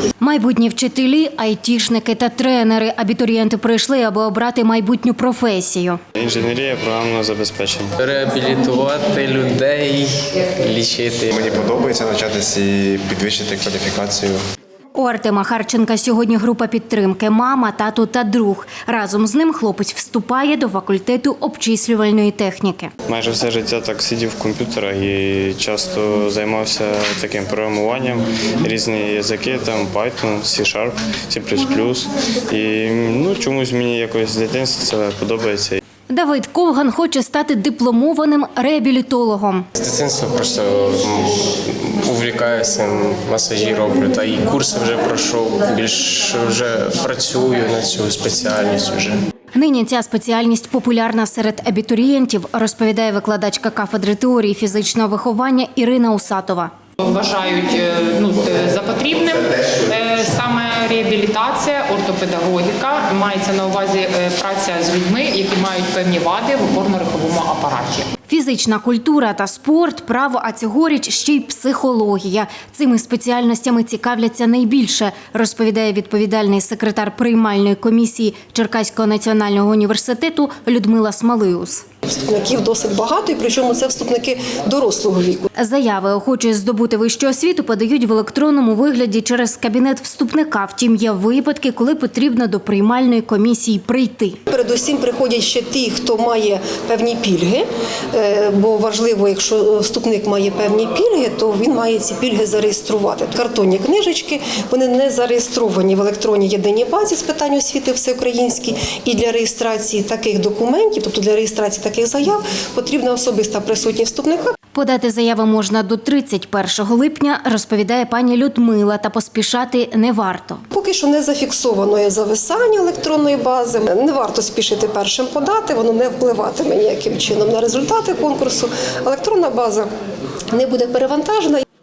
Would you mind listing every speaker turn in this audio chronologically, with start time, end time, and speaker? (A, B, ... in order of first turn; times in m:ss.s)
0:00.2-0:06.0 A
0:06.2-0:08.0 B
0:08.0-0:11.6 C
0:11.4-0:14.4 D
0:14.9-0:22.9 A
0:23.1-0:35.8 B
0:36.1-0:39.7 A
0:39.8-0:49.2 C
0:49.5-0:56.7 A
0:57.0-1:08.1 E
1:08.3-1:21.8 A
1:22.1-1:25.5 F
1:25.6-1:34.4 A
1:34.5-1:54.5 F
1:54.7-2:00.6 A
2:00.7-2:09.9 F
2:10.5-2:11.6 F